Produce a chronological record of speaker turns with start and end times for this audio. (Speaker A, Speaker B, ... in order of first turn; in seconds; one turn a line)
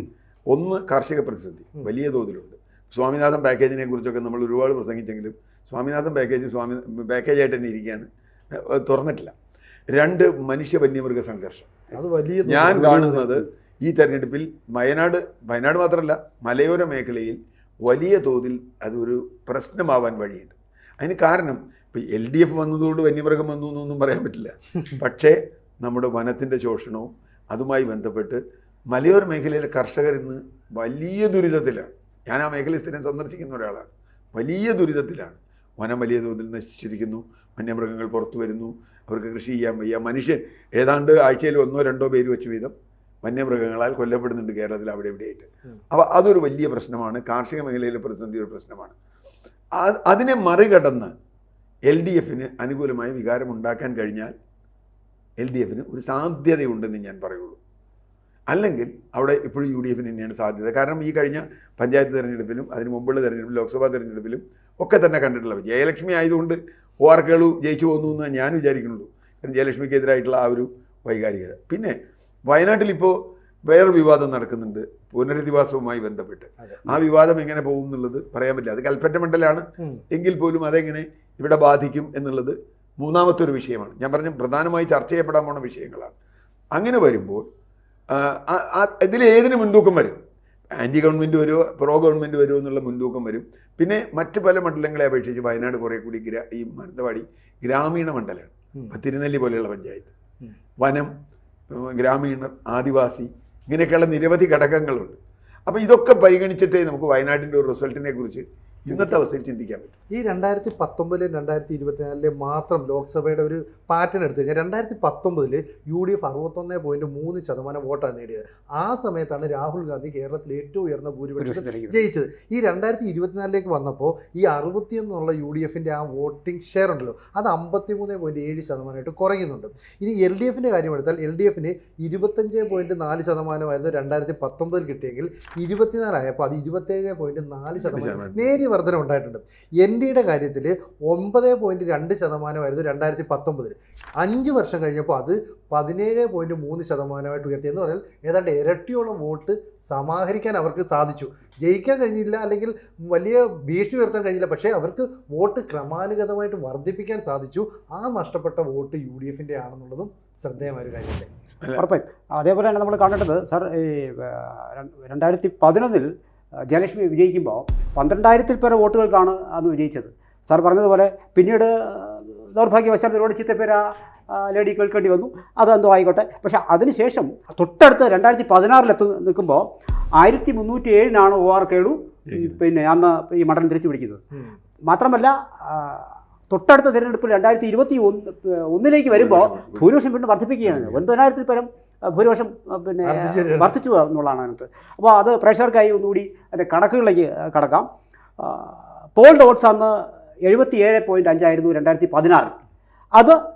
Speaker A: 0.5-9.3
Speaker A: 9.9-11.8
Speaker B: 11.9-13.3
Speaker A: 12.4-49.0
Speaker A: 49.8-51.1
Speaker A: 51.9-54.3
Speaker A: 55.4-57.6
Speaker A: 58.5-72.0
Speaker A: 72.5-73.2
Speaker A: 73.7-86.2
Speaker B: 76.6-76.9
Speaker A: 86.7-87.5
Speaker A: 88.1-90.2
Speaker A: 90.8-100.1
Speaker A: 100.8-101.1
Speaker A: 101.7-109.9
Speaker B: 110.1-161.3
Speaker C: 121.4-122.0
Speaker A: 137.8-138.6
Speaker C: 161.8-166.1
Speaker C: 166.7-179.7
Speaker C: 180.2-184.2
Speaker A: 182.3-182.6
Speaker C: 184.8-197.9
Speaker A: 189.1-189.9
Speaker A: 190.6-191.0
Speaker B: 193.0-193.7
Speaker C: 198.4-202.6